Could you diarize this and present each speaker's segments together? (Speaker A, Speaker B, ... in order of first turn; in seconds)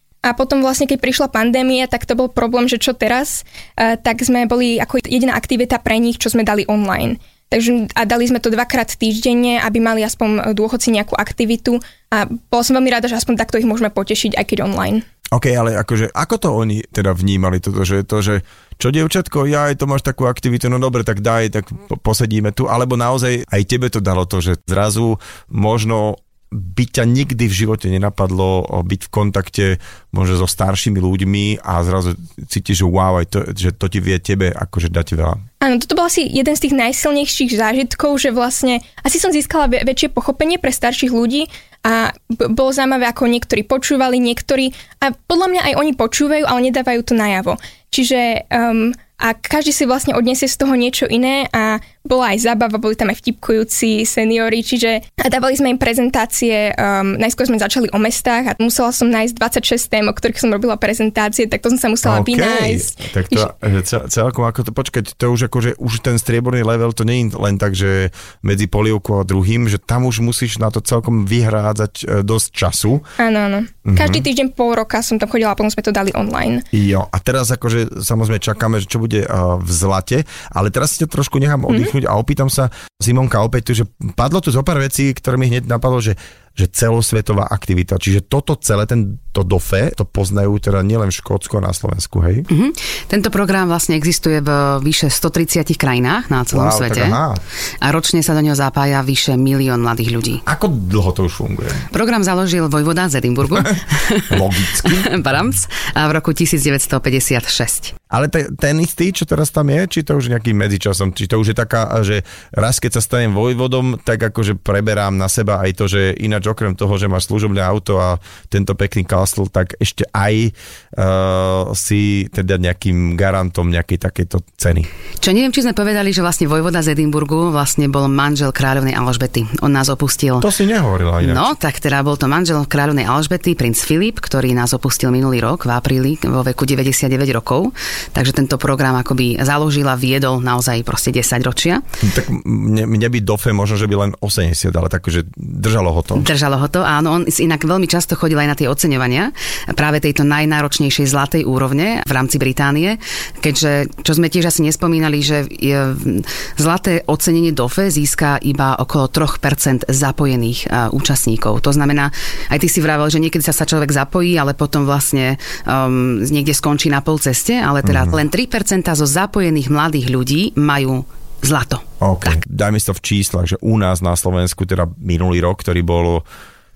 Speaker A: 0.2-15.0, 35.6-63.5, 73.2-76.6
Speaker B: 15.3-35.4, 62.0-73.0, 73.8-74.2, 76.7-92.5, 96.5-97.4, 100.5-101.8, 103.5-105.1, 108.1-124.9, 130.4-131.5, 142.0-146.2, 167.8-168.2, 172.0-176.2
Speaker C: 92.5-97.2, 97.8-100.4, 101.9-107.9, 125.2-130.5, 131.2-141.8, 146.1-172.4